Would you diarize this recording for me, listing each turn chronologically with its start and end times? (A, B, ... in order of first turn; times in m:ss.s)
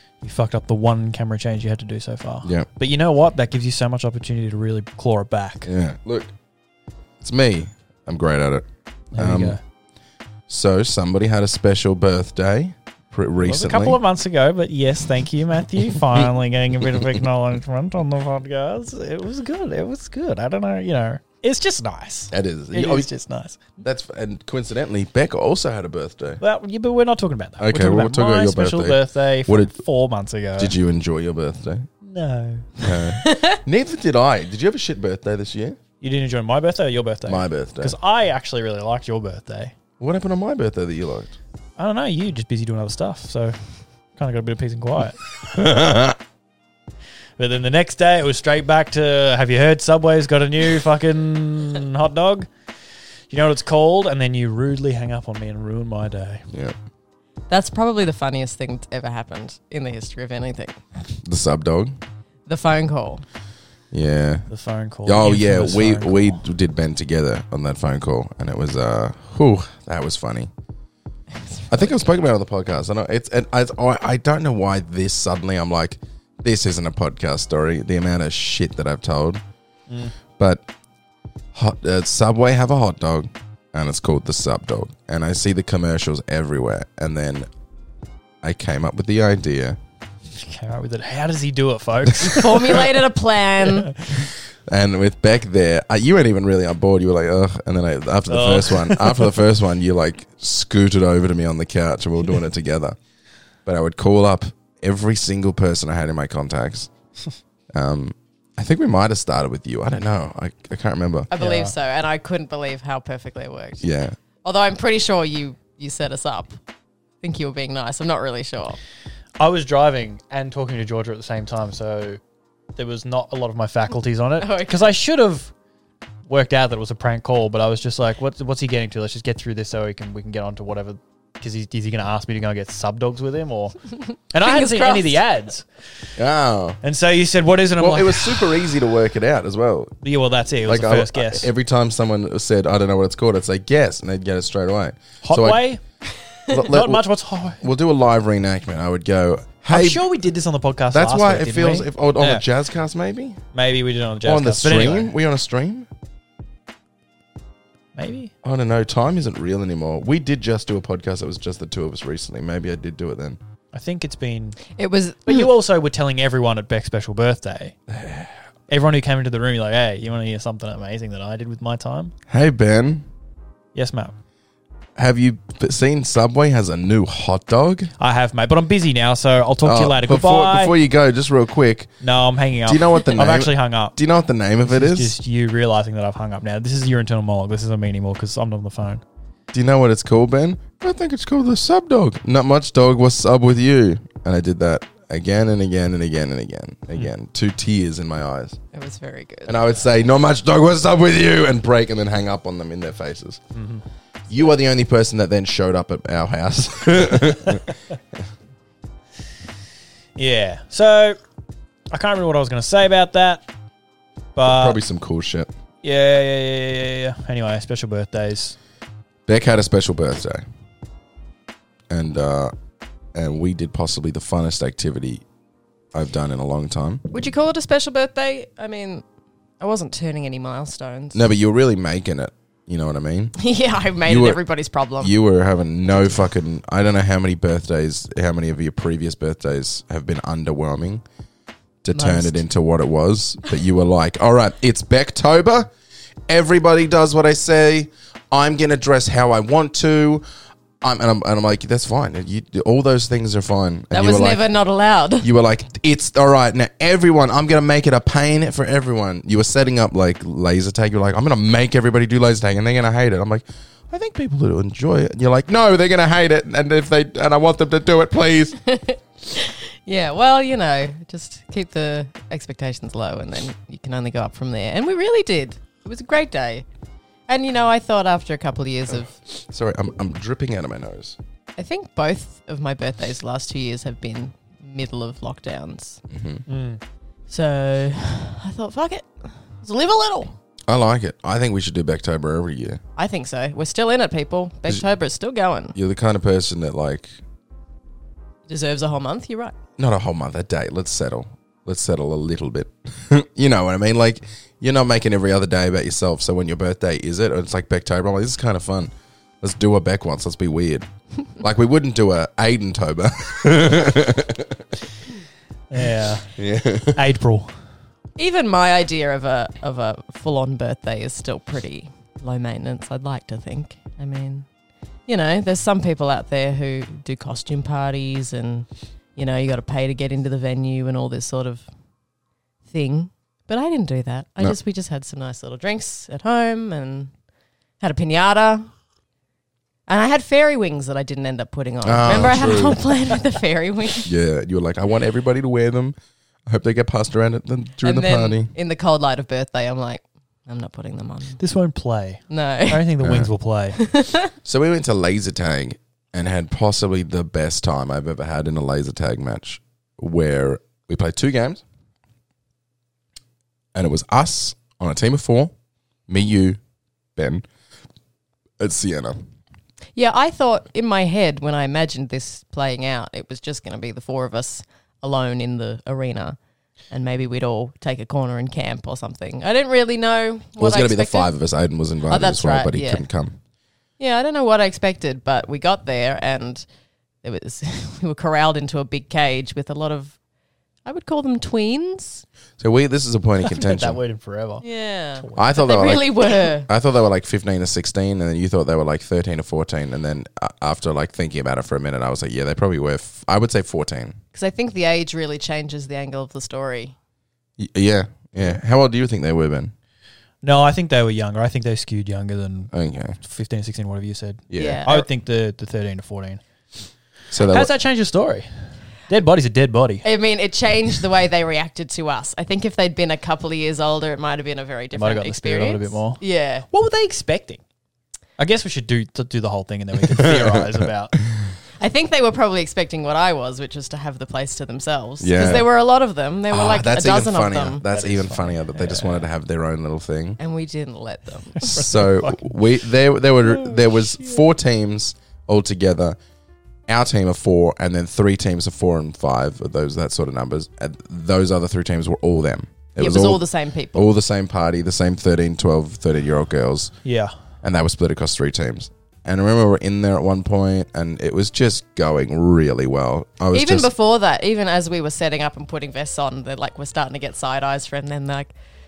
0:00.2-0:05.7 A
0:05.6-0:06.3 B
0:07.2-0:09.6 B
0:09.1-0:09.6 A
0:10.5-0:14.0 B
0:13.4-0:23.7 A
0:22.3-0:23.1 B
0:23.8-0:26.4 B
0:26.4-0:30.8 A
0:27.6-0:29.8 B
0:30.6-0:31.9 B
0:32.0-0:32.8 A
0:32.8-0:35.8 B
0:33.2-0:33.6 C
0:36.0-0:39.7 A
0:37.3-0:37.9 B
0:40.0-0:41.3 B
0:41.8-0:43.6 A
0:44.2-0:45.2 A
0:45.5-0:46.2 B
0:47.4-0:52.5 A
0:53.3-0:56.4 A
0:56.5-0:56.7 B
0:57.5-1:00.8 C
1:01.2-1:02.0 B
1:02.4-1:03.2 C
1:03.9-1:04.4 B
1:04.5-1:06.4 A
1:05.0-1:10.5 B
1:11.4-1:12.1 C
1:11.7-1:19.4 B
1:19.9-1:20.1 A
1:20.4-1:20.7 B
1:21.5-1:27.5 B
1:28.4-1:29.8 B
1:30.4-1:32.9 A
1:32.2-1:33.9 C
1:34.7-1:43.0 B
1:38.3-1:39.3 A
1:43.6-1:46.9 B
1:47.7-1:51.3 B
1:51.3-1:53.8 C
1:51.4-1:51.7 A
1:53.8-1:54.2 B
1:54.4-1:56.6 C
1:57.2-1:58.8 C
1:59.4-2:02.2 A
2:02.8-2:05.5 A
2:04.4-2:04.9 C
2:06.3-2:15.6 A
2:14.4-2:15.2 C
2:16.2-2:16.8 B
2:16.8-2:18.7 A
2:17.8-2:19.9 B
2:20.0-2:21.5 A
2:20.6-2:25.6 B
2:25.2-2:25.8 A
2:26.5-2:27.0 B
2:26.5-2:27.6 A
2:27.6-2:30.0 B
2:29.7-2:32.4 A
2:30.9-2:33.4 B
2:33.5-2:35.1 A
2:34.2-2:35.9 B
2:38.0-2:38.3 A
2:38.4-2:43.4 B
2:43.7-2:44.7 A
2:44.7-2:45.5 C
2:45.2-2:47.8 A
2:47.9-2:48.3 B
2:48.7-2:52.1 A
2:52.3-2:53.0 B
2:53.7-2:54.1 A
2:55.0-2:57.9 B
2:58.0-3:00.7 A
2:59.6-3:01.9 B
3:02.0-3:04.0 A
3:02.6-3:05.1 B
3:04.7-3:09.0 A
3:09.5-3:18.6 B
3:18.7-3:19.6 C
3:19.5-3:23.4 B
3:23.5-3:23.8 A
3:24.3-3:27.8 B
3:30.2-3:31.2 A
3:31.9-3:33.4 A
3:34.4-3:34.8 A
3:34.4-3:35.5 B
3:35.8-3:38.6 A
3:39.3-3:40.4 B
3:41.9-3:42.5 B
3:43.1-3:45.2 B
3:45.9-3:47.0 B
3:47.1-3:49.0 C
3:49.6-3:51.3 C
3:51.1-3:53.3 B
3:53.4-3:55.1 C
3:54.0-3:54.4 B
3:55.0-4:01.0 B
4:01.8-4:05.7 B
4:01.9-4:02.4 C
4:06.3-4:10.2 B
4:10.8-4:14.4 B
4:13.9-4:15.3 C
4:15.2-4:28.6 B
4:28.6-4:36.6 C
4:37.3-4:39.1 C
4:39.2-4:41.2 B
4:41.6-4:46.0 C
4:46.1-4:46.4 B
4:46.5-4:46.8 A
4:47.3-4:50.4 C
4:50.7-4:52.8 B
4:53.0-4:55.7 C
4:55.7-4:57.1 B
4:58.5-4:59.6 C
4:59.8-5:14.6 B
5:15.7-5:16.3 A
5:16.3-5:17.0 B
5:16.9-5:17.5 A
5:18.2-5:24.5 C
5:25.1-5:31.6 C
5:32.6-5:37.1 C
5:37.8-5:38.7 C
5:39.9-5:44.1 C
5:41.8-5:42.8 B
5:44.0-5:45.9 B
5:46.5-5:48.5 B
5:47.8-5:51.4 C
5:51.4-5:53.8 A
5:52.3-5:52.9 C
5:53.0-5:53.3 B
5:53.7-5:54.3 C
5:54.4-6:01.6 B
6:03.7-6:05.5 B
6:06.1-6:06.6 B
6:07.2-6:07.4 B
6:08.6-6:09.2 B
6:09.9-6:16.4 C
6:16.9-6:21.3 C
6:20.6-6:23.4 B
6:22.1-6:23.0 C
6:24.0-6:26.6 C
6:27.2-6:30.2 C
6:30.8-6:32.2 C
6:32.6-6:34.0 B
6:33.5-6:34.6 A
6:34.6-6:36.7 C
6:35.2-6:35.5 A
6:35.4-6:44.2 B
6:44.3-6:46.9 C
6:47.6-6:49.7 B
6:50.4-6:56.4 A
6:52.7-6:53.2 B
6:54.5-6:54.8 B
6:54.6-6:55.1 C
6:57.3-6:57.7 B
6:57.5-6:58.5 A
6:59.1-7:00.0 A
7:00.0-7:06.6 C
7:04.9-7:07.6 A
7:08.4-7:11.2 A
7:10.1-7:11.5 B
7:11.8-7:17.8 C
7:15.2-7:15.7 B
7:16.5-7:20.4 B
7:17.9-7:19.3 A
7:20.4-7:21.8 C
7:21.6-7:22.6 A
7:21.6-7:26.2 B
7:26.9-7:36.9 B
7:33.0-7:34.1 C
7:37.0-7:37.3 A
7:37.6-7:43.9 B
7:43.5-7:48.5 C